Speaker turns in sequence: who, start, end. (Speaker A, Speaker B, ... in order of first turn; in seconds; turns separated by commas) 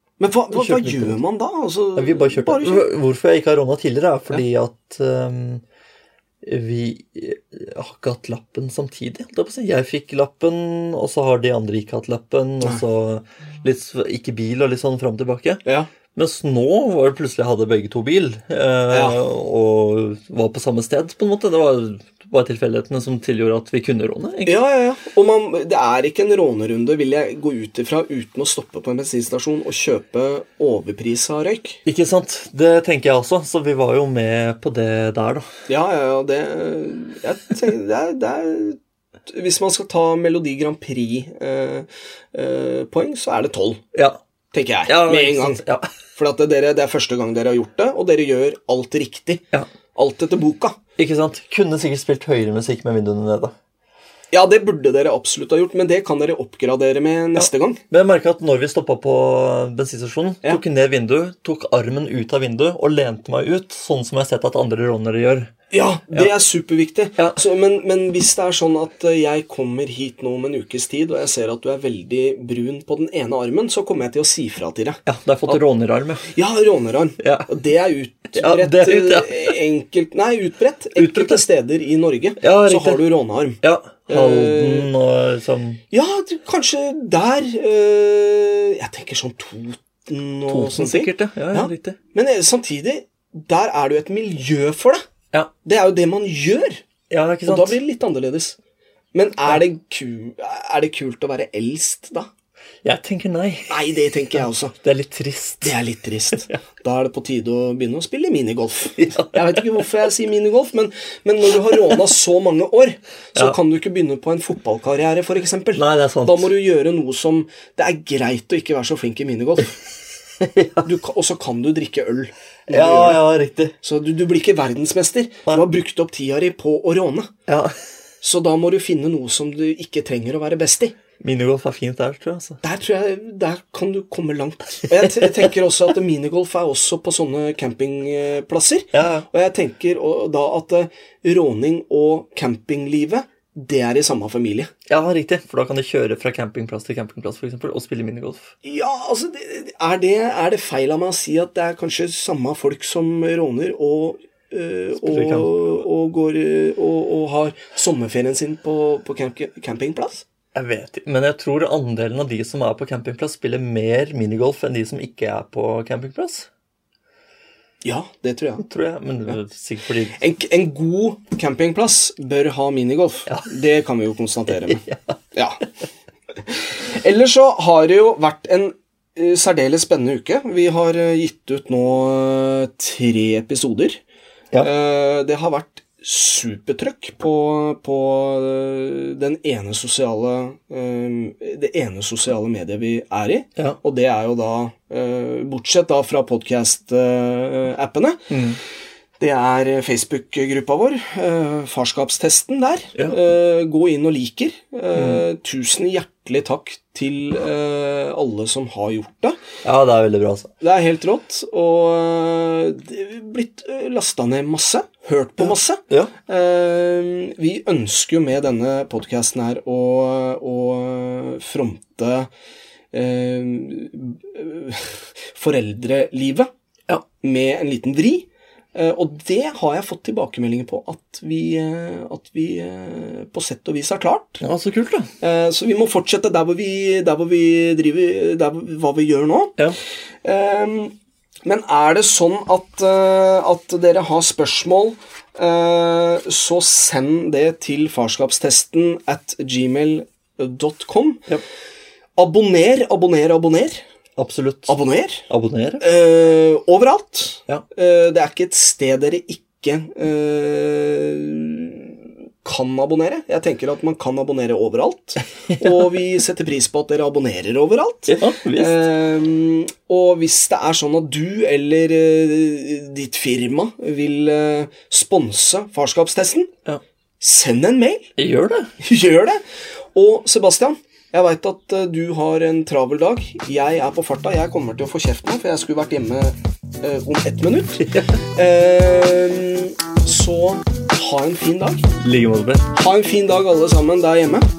Speaker A: 0.2-2.9, Speaker B: 0.5-1.2, Speaker B: 2.0-5.6, Speaker B: 6.4-15.6, Speaker B: 16.1-24.6, Speaker A: 18.9-19.2, Speaker A: 24.5-31.8, Speaker B: 31.9-35.5, Speaker A: 35.7-43.8, Speaker A: 44.5-45.6, Speaker B: 44.9-45.9, Speaker A: 46.2-49.4, Speaker A: 50.0-50.8, Speaker B: 51.0-53.5, Speaker A: 54.3-57.8, Speaker B: 57.4-65.5, Speaker A: 65.7-75.6, Speaker B: 75.1-76.3, Speaker A: 76.3-84.9, Speaker B: 77.2-77.5, Speaker B: 78.3-79.5, Speaker B: 81.0-81.4, Speaker B: 82.4-83.0, Speaker B: 83.6-85.8, Speaker A: 85.9-95.0, Speaker B: 90.5-92.0, Speaker A: 95.6-96.8, Speaker B: 97.1-97.8, Speaker A: 97.5-98.6, Speaker A: 99.1-102.3, Speaker B: 102.8-103.8, Speaker A: 103.7-104.7, Speaker B: 104.7-105.8, Speaker A: 105.6-119.8, Speaker B: 109.0-109.8, Speaker B: 115.8-116.5, Speaker B: 120.4-120.9, Speaker A: 120.8-123.2, Speaker B: 122.7-123.8, Speaker A: 123.8-127.3, Speaker B: 127.5-127.8, Speaker A: 128.2-130.9, Speaker B: 131.2-132.6, Speaker A: 132.6-144.7, Speaker B: 134.9-135.5, Speaker B: 138.9-139.3, Speaker B: 144.9-148.5, Speaker A: 148.6-160.2, Speaker B: 155.0-155.8, Speaker B: 160.6-166.5, Speaker A: 167.8-168.7, Speaker B: 168.6-170.2, Speaker A: 170.1-174.8, Speaker B: 174.6-175.2, Speaker A: 175.3-175.7, Speaker A: 176.5-184.0, Speaker A: 184.6-198.3, Speaker B: 198.3-198.6, Speaker A: 199.2-209.4, Speaker B: 204.9-205.2, Speaker B: 209.6-210.5, Speaker A: 210.6-222.3, Speaker B: 215.4-216.1, Speaker A: 222.9-226.5, Speaker A: 227.2-234.4, Speaker B: 234.4-235.1, Speaker A: 235.2-239.6, Speaker A: 240.2-240.9, Speaker A: 241.4-251.3, Speaker A: 252.2-253.8, Speaker B: 254.2-254.8, Speaker A: 254.7-255.3, Speaker B: 255.3-255.9, Speaker A: 255.8-276.5, Speaker B: 268.1-268.9, Speaker A: 277.2-278.1, Speaker B: 278.2-278.7, Speaker A: 278.8-279.4, Speaker A: 279.9-291.9, Speaker B: 292.0-292.7, Speaker A: 292.7-294.5